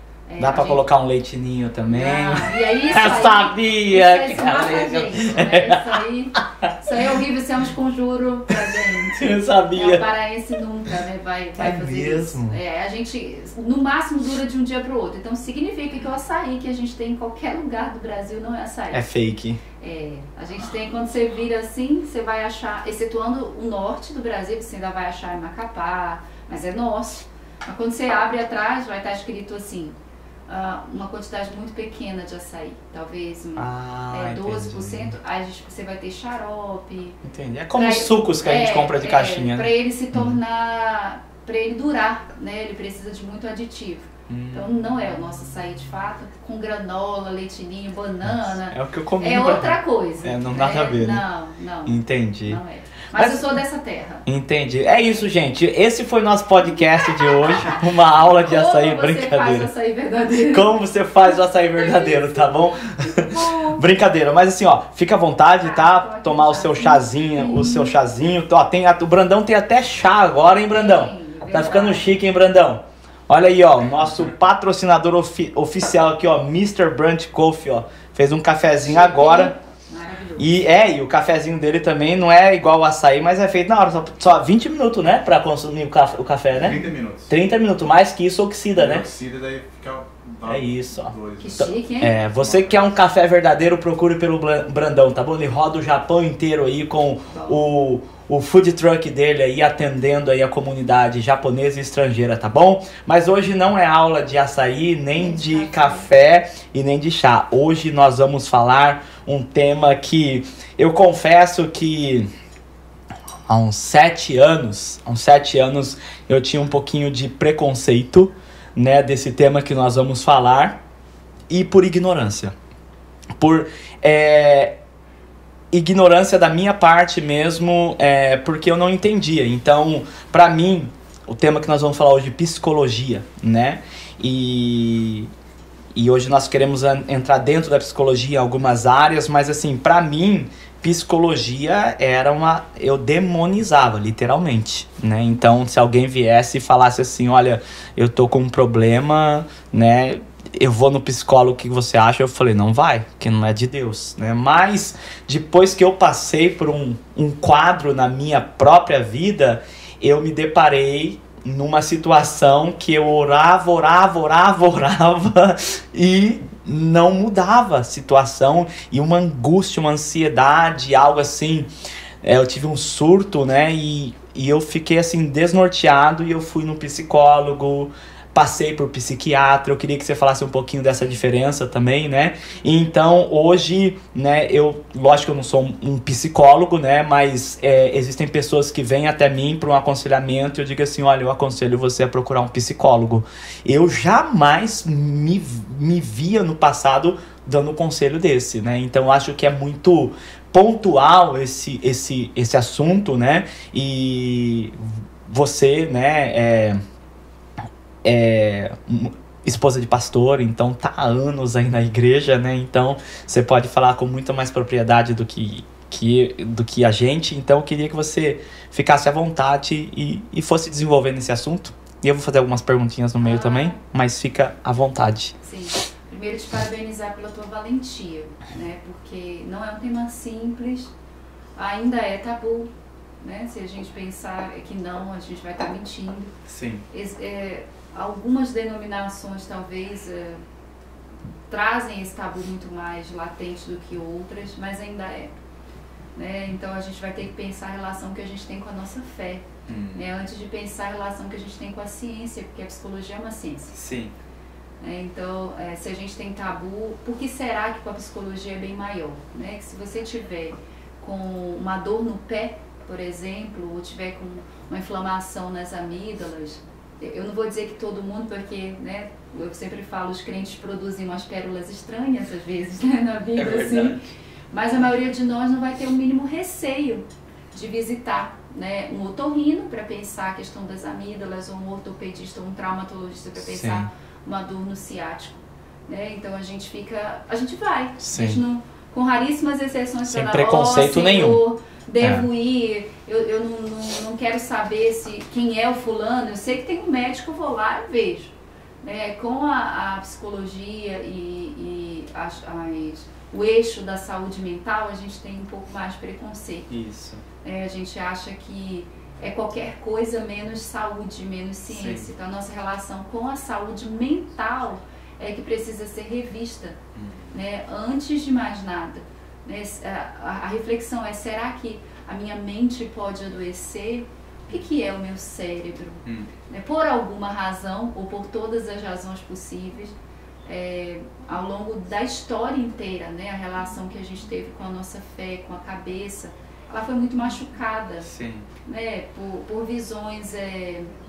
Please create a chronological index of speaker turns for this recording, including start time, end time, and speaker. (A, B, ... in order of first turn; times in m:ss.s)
0:00.3-0:00.8 A
0:00.4-0:06.0 B
0:01.9-0:19.0 A
0:08.5-0:10.1 B
0:11.6-0:12.6 B
0:18.9-0:19.6 B
0:19.8-0:37.2 A
0:33.6-0:35.2 B
0:37.2-0:40.3 B
0:37.7-0:54.2 A
0:44.3-0:44.7 B
0:48.2-0:51.2 B
0:51.8-0:52.6 B
0:53.1-0:53.4 B
0:54.2-0:59.7 B
0:56.6-0:57.8 A
0:58.4-1:00.7 A
1:00.5-1:19.5 B
1:01.7-1:03.9 A
1:05.6-1:07.9 A
1:10.7-1:12.2 A
1:18.8-1:20.6 A
1:20.4-1:29.0 B
1:26.6-1:27.3 C
1:28.7-1:31.7 C
1:30.5-1:52.3 B
1:31.4-1:32.2 A
1:32.4-1:32.9 C
1:37.3-1:37.6 A
1:45.2-1:46.1 A
1:53.5-2:00.8 B
2:01.5-2:02.5 B
2:03.4-2:04.8 B
2:05.7-2:15.3 B
2:15.9-2:51.7 B
2:52.2-3:26.8 B
3:28.0-3:45.4 B
3:43.2-3:43.8 A
3:45.4-3:50.9 A
3:51.6-3:56.3 A
3:56.5-3:56.8 B
3:56.9-4:00.4 A
4:01.5-4:05.3 A
4:06.2-4:13.8 A
4:09.7-4:10.1 B
4:13.7-4:14.1 B
4:14.8-4:34.0 A
4:33.3-4:34.0 B
4:34.5-5:06.7 A
4:43.4-4:43.9 B
4:48.0-4:48.4 B
4:50.1-4:51.4 B
4:52.0-4:52.3 B
5:06.7-5:07.2 B
5:07.4-5:16.8 A
5:11.7-5:12.1 B
5:16.9-5:17.3 B
5:17.3-5:29.9 A
5:26.0-5:26.3 B
5:30.4-5:38.1 A
5:38.0-5:38.5 B
5:38.6-5:40.9 A